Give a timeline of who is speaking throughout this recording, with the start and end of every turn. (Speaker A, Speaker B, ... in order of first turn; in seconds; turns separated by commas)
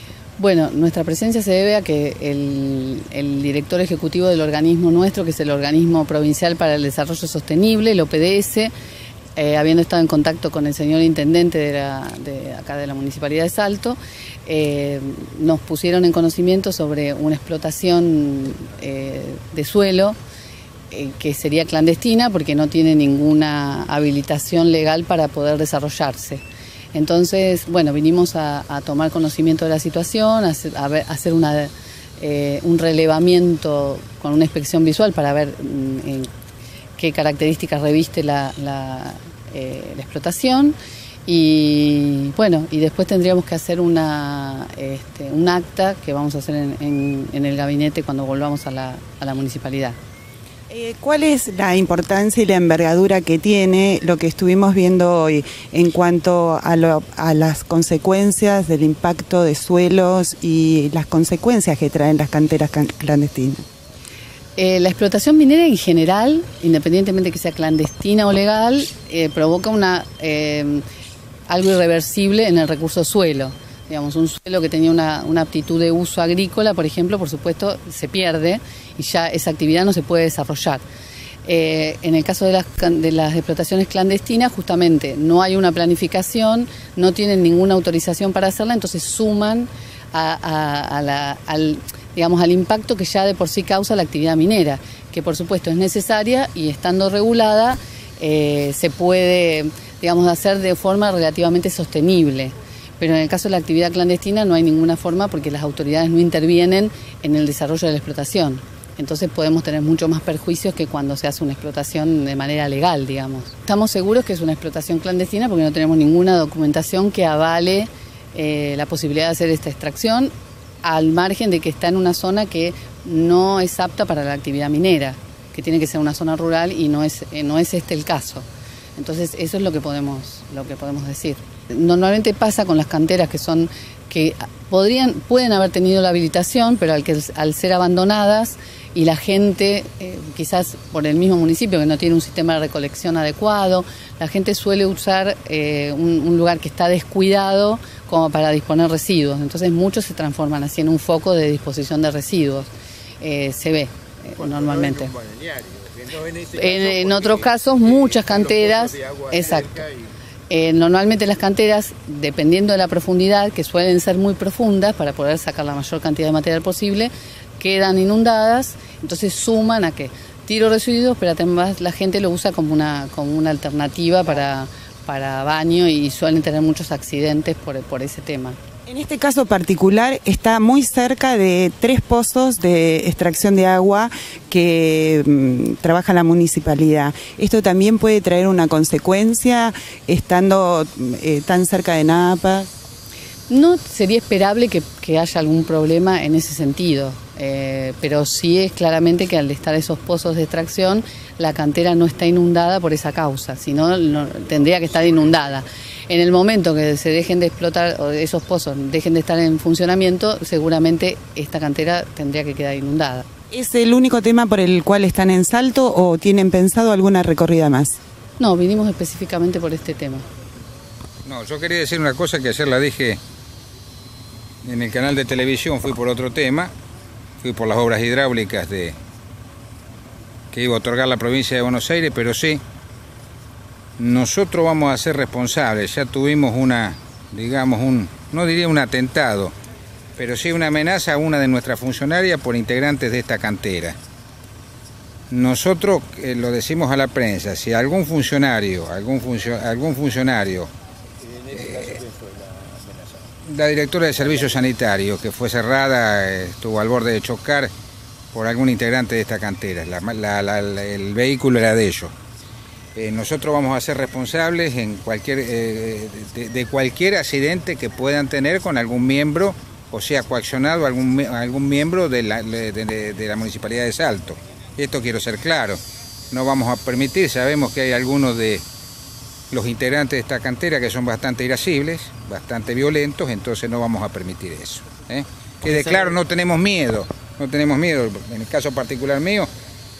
Speaker A: 0.4-8.7, Speaker A: 9.3-14.0, Speaker A: 14.6-19.8, Speaker A: 21.3-22.6, Speaker A: 23.2-26.2, Speaker A: 28.1-28.6, Speaker A: 33.7-35.5, Speaker A: 37.2-39.1, Speaker A: 39.8-40.7, Speaker A: 41.3-50.0, Speaker B: 50.7-63.6, Speaker A: 64.6-70.7, Speaker A: 71.6-73.5, Speaker A: 74.2-80.8, Speaker A: 81.8-89.6, Speaker A: 91.1-94.8, Speaker A: 95.3-97.8, Speaker A: 98.6-102.4, Speaker A: 103.4-106.8, Speaker A: 107.3-108.2, Speaker A: 109.0-117.8, Speaker A: 118.7-120.3, Speaker A: 120.9-125.1, Speaker A: 125.8-128.4, Speaker A: 129.2-131.4, Speaker A: 131.9-133.7, Speaker A: 134.2-138.5, Speaker A: 139.1-139.8, Speaker C: 139.9-140.3, Speaker A: 140.4-143.8, Speaker A: 144.5-145.3, Speaker A: 145.9-148.0, Speaker C: 148.0-148.8, Speaker A: 148.8-150.6, Speaker A: 151.1-152.6, Speaker C: 153.8-162.5, Speaker A: 158.0-159.0, Speaker A: 161.2-165.4, Speaker C: 165.2-165.7, Speaker A: 166.0-166.8, Speaker C: 167.1-167.6, Speaker A: 167.7-178.6, Speaker B: 178.8-192.7, Speaker A: 193.5-204.6, Speaker C: 204.4-206.1, Speaker A: 206.4-213.2, Speaker B: 213.5-218.0, Speaker A: 218.4-220.2, Speaker C: 221.2-223.2, Speaker C: 224.6-226.7, Speaker C: 227.4-229.0, Speaker C: 230.5-232.6, Speaker C: 234.0-239.5, Speaker C: 240.2-243.9, Speaker C: 245.3-250.7, Speaker C: 251.4-257.7, Speaker C: 258.3-262.1, Speaker C: 262.9-275.8, Speaker C: 276.3-278.6, Speaker C: 279.5-289.5